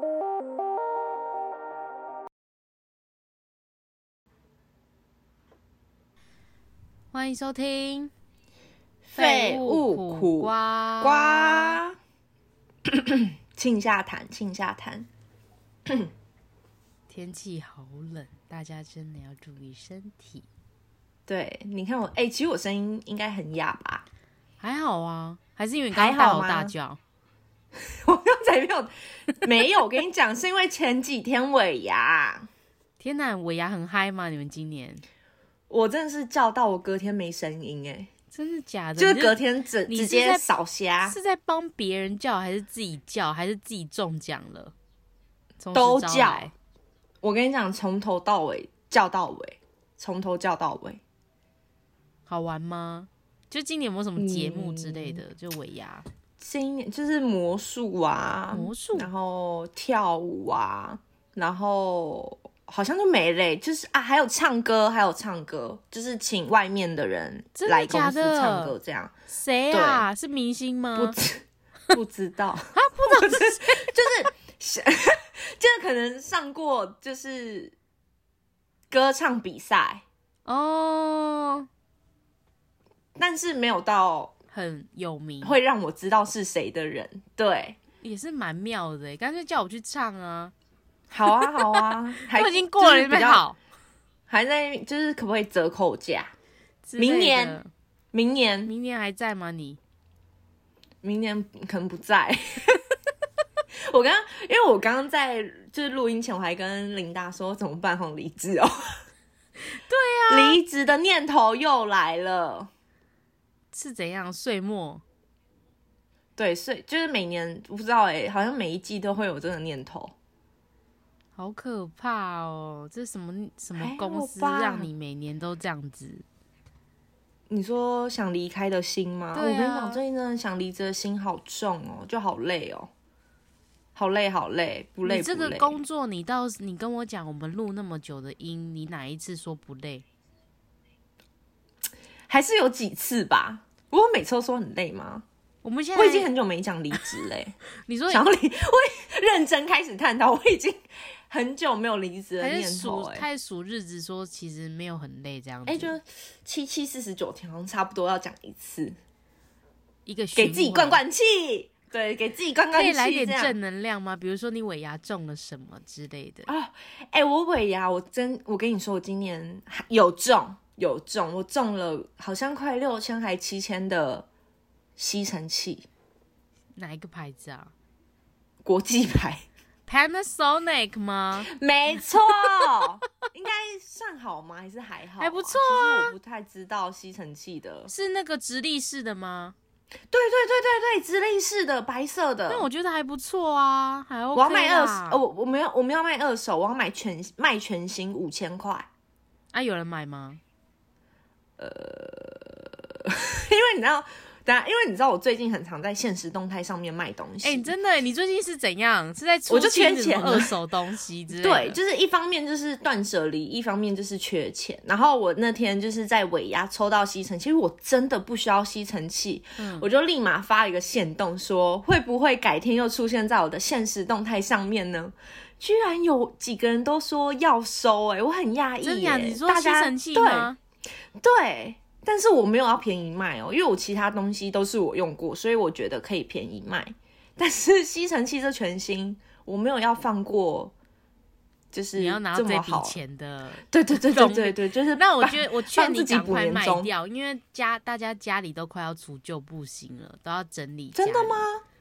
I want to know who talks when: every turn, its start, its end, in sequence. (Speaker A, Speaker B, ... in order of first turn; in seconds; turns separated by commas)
Speaker A: 7.1-8.1, Speaker B: 9.1-11.9, Speaker A: 9.2-11.8, Speaker B: 12.8-15.1, Speaker B: 15.8-16.1, Speaker A: 17.1-20.4, Speaker B: 21.3-24.0, Speaker A: 24.6-27.0, Speaker B: 25.9-26.7, Speaker B: 27.7-32.5, Speaker A: 33.0-35.0, Speaker B: 35.7-38.1, Speaker A: 38.3-40.4, Speaker B: 39.0-41.1, Speaker A: 41.0-44.7, Speaker A: 45.6-46.5, Speaker B: 45.7-46.5, Speaker B: 47.2-51.0, Speaker A: 52.3-56.0, Speaker B: 54.2-55.2, Speaker B: 56.4-69.1, Speaker A: 58.5-59.1, Speaker A: 67.5-68.7, Speaker A: 69.3-71.2, Speaker B: 69.7-70.0, Speaker B: 70.9-77.7, Speaker A: 72.7-73.9, Speaker B: 78.9-80.0, Speaker A: 80.5-81.7, Speaker B: 83.2-84.3, Speaker A: 84.5-85.6, Speaker B: 85.4-87.8, Speaker A: 88.0-90.5, Speaker B: 91.1-93.4, Speaker A: 91.3-93.6, Speaker B: 94.3-96.3, Speaker A: 96.8-97.7, Speaker B: 97.0-97.6, Speaker B: 98.1-98.7, Speaker A: 98.7-99.8, Speaker B: 101.0-102.9, Speaker B: 103.9-109.0, Speaker A: 109.7-110.6, Speaker B: 110.3-112.7, Speaker A: 113.7-115.0, Speaker B: 116.4-120.1, Speaker A: 121.3-126.2, Speaker B: 123.8-124.9, Speaker B: 127.5-132.9, Speaker A: 129.3-130.0, Speaker B: 133.9-135.8, Speaker A: 135.0-140.0, Speaker B: 142.3-145.2, Speaker A: 145.6-146.3, Speaker B: 145.9-147.5, Speaker A: 147.8-148.2, Speaker B: 148.1-153.2, Speaker A: 152.4-156.0, Speaker B: 155.7-158.9, Speaker A: 160.1-161.0, Speaker B: 160.3-163.5, Speaker A: 162.7-166.5, Speaker B: 166.5-174.3, Speaker B: 175.0-175.9, Speaker A: 176.8-177.7, Speaker B: 178.6-179.4, Speaker A: 179.9-182.8, Speaker B: 181.5-187.9, Speaker A: 185.2-186.2, Speaker A: 187.9-189.5, Speaker B: 190.1-192.7, Speaker A: 192.5-195.2, Speaker B: 194.3-198.9, Speaker A: 199.5-200.4, Speaker B: 201.6-207.7, Speaker A: 207.4-211.8, Speaker B: 209.5-210.5, Speaker B: 211.3-230.5, Speaker A: 219.6-219.9, Speaker A: 228.8-230.6, Speaker B: 231.2-240.7, Speaker B: 241.7-242.9, Speaker A: 241.9-251.5, Speaker B: 243.7-246.9, Speaker B: 250.9-251.6